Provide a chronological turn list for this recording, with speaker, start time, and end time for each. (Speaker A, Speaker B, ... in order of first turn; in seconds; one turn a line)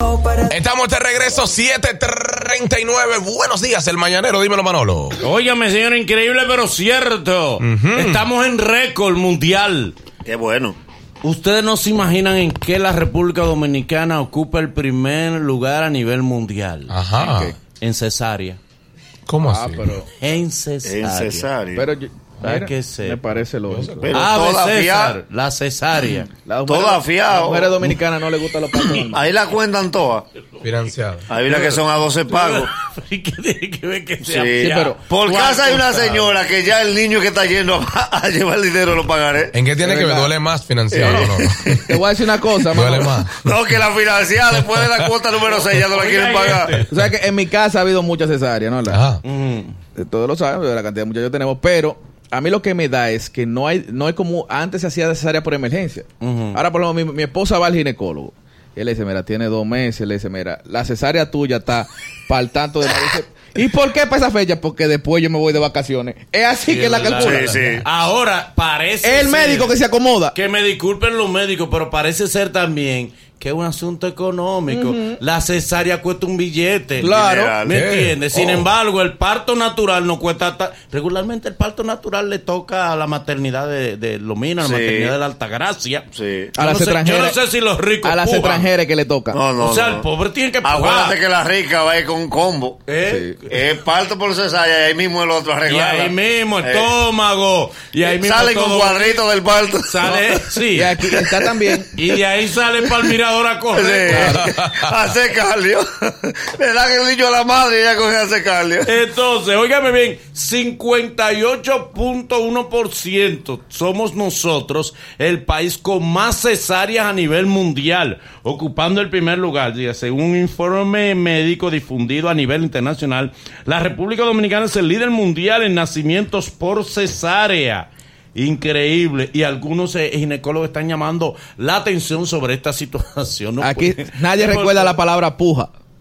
Speaker A: 0.4-5.2
Speaker B: 5.2-9.9
Speaker A: 7.6-8.2
Speaker C: 10.2-10.8
Speaker B: 11.2-16.9
Speaker A: 16.9-17.5
Speaker D: 17.2-17.5
Speaker B: 17.8-18.6
Speaker A: 19.3-19.9
Speaker D: 19.4-20.1
Speaker B: 20.2-21.5
Speaker C: 20.8-21.9
Speaker D: 21.8-24.1
Speaker B: 22.4-23.2
Speaker A: 23.7-24.1
Speaker C: 24.0-25.1
Speaker B: 24.1-26.3
Speaker D: 26.3-29.3
Speaker C: 26.6-27.8
Speaker B: 28.8-29.0
Speaker C: 29.1-30.2
Speaker B: 30.4-30.7
Speaker A: 30.6-31.3
Speaker C: 31.3-32.7
Speaker B: 31.4-36.3
Speaker C: 34.2-39.5
Speaker D: 34.6-35.0
Speaker A: 39.5-41.6
Speaker D: 39.8-40.3
Speaker C: 40.9-42.0
Speaker B: 40.9-41.3
Speaker D: 41.8-43.1
Speaker A: 42.7-43.8
Speaker C: 43.4-46.8
Speaker A: 44.5-45.1
Speaker B: 45.5-46.9
Speaker D: 46.9-49.0
Speaker A: 48.9-49.2
Speaker B: 49.2-49.8
Speaker D: 49.9-67.8
Speaker B: 56.2-56.6
Speaker B: 66.7-69.8
Speaker C: 67.1-67.8
Speaker D: 69.0-70.3
Speaker B: 70.3-86.0
Speaker D: 74.7-75.2
Speaker D: 77.0-77.5
Speaker C: 77.0-77.8
Speaker A: 77.7-78.2
Speaker C: 78.3-78.6
Speaker C: 84.6-85.1
Speaker C: 86.1-86.5
Speaker D: 86.5-87.4
Speaker B: 86.6-88.7
Speaker D: 88.0-89.4
Speaker C: 89.3-90.0
Speaker B: 89.6-91.2
Speaker C: 90.6-92.8
Speaker B: 92.9-93.4
Speaker D: 93.0-93.4
Speaker C: 93.5-96.9
Speaker B: 95.7-99.2
Speaker C: 98.0-100.3
Speaker B: 99.8-101.0
Speaker D: 100.7-101.9
Speaker B: 101.9-104.4
Speaker C: 103.7-108.9
Speaker D: 104.1-104.5
Speaker B: 108.8-134.9
Speaker D: 133.6-135.7